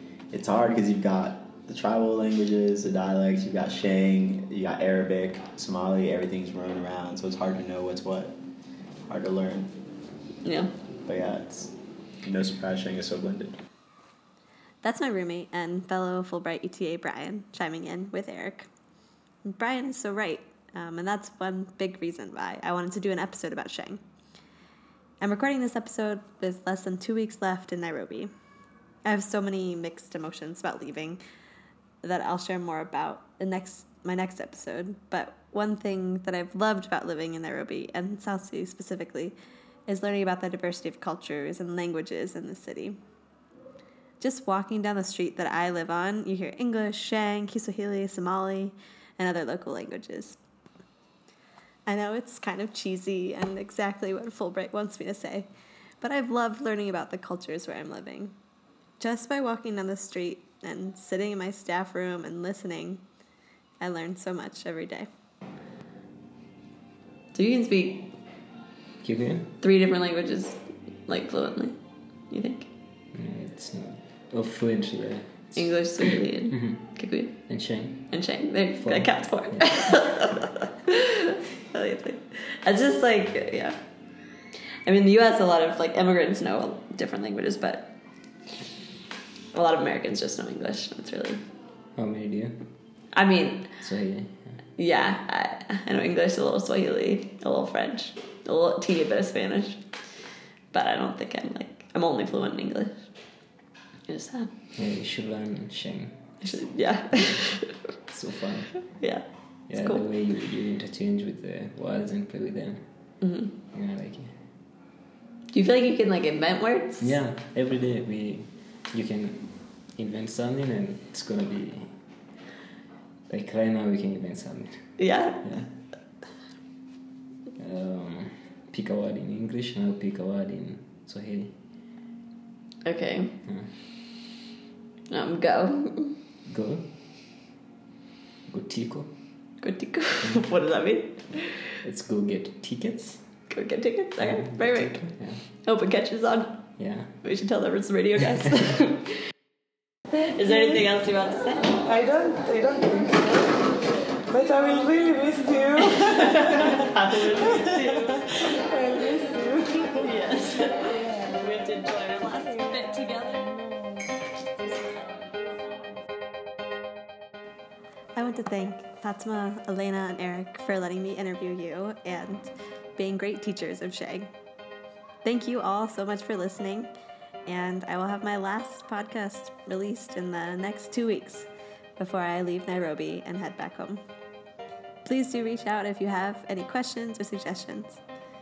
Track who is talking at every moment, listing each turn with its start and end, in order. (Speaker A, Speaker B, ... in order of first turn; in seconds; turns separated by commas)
Speaker A: 0.3-8.3, Speaker A: 9.1-9.7, Speaker B: 10.4-10.7, Speaker A: 11.1-11.7, Speaker A: 12.2-13.6, Speaker C: 14.8-18.7, Speaker C: 19.4-24.0, Speaker C: 25.2-28.3, Speaker C: 29.0-31.2, Speaker C: 32.0-39.4, Speaker C: 39.9-43.0, Speaker C: 44.2-50.4, Speaker C: 51.9-55.5, Speaker C: 56.0-58.4, Speaker C: 59.0-63.0, Speaker C: 63.8-65.1, Speaker B: 67.3-68.1, Speaker D: 69.0-69.5, Speaker B: 69.6-71.8, Speaker B: 72.3-72.7, Speaker D: 73.1-75.7, Speaker B: 75.5-77.4, Speaker D: 76.5-76.8, Speaker D: 77.5-78.1, Speaker B: 78.1-83.8, Speaker D: 78.8-79.6, Speaker B: 84.9-87.9, Speaker B: 89.5-91.4, Speaker D: 92.0-92.6, Speaker B: 93.1-93.7, Speaker D: 93.8-94.6, Speaker B: 94.8-99.8, Speaker B: 100.7-103.1, Speaker B: 104.1-104.5, Speaker D: 104.8-106.2, Speaker B: 106.4-107.8, Speaker D: 107.1-107.4, Speaker D: 108.1-108.8, Speaker B: 109.0-110.0, Speaker D: 109.7-112.8, Speaker B: 113.2-113.5, Speaker D: 113.7-114.3, Speaker B: 115.5-117.1, Speaker D: 117.0-121.9, Speaker D: 123.3-125.8, Speaker B: 125.0-125.4, Speaker D: 127.6-131.6, Speaker B: 132.8-133.4, Speaker D: 133.4-133.7, Speaker B: 135.1-136.1, Speaker D: 136.5-136.9, Speaker D: 138.5-139.1, Speaker B: 139.6-141.6, Speaker D: 141.8-143.2, Speaker B: 143.5-149.1, Speaker D: 144.2-145.4, Speaker D: 146.8-147.2, Speaker B: 150.2-151.8, Speaker E: 151.8-153.6, Speaker E: 154.3-156.5, Speaker B: 155.8-158.6, Speaker E: 158.6-159.9, Speaker B: 160.0-163.5, Speaker C: 168.2-174.3, Speaker C: 175.2-176.9, Speaker C: 177.5-184.0, Speaker C: 185.0-188.0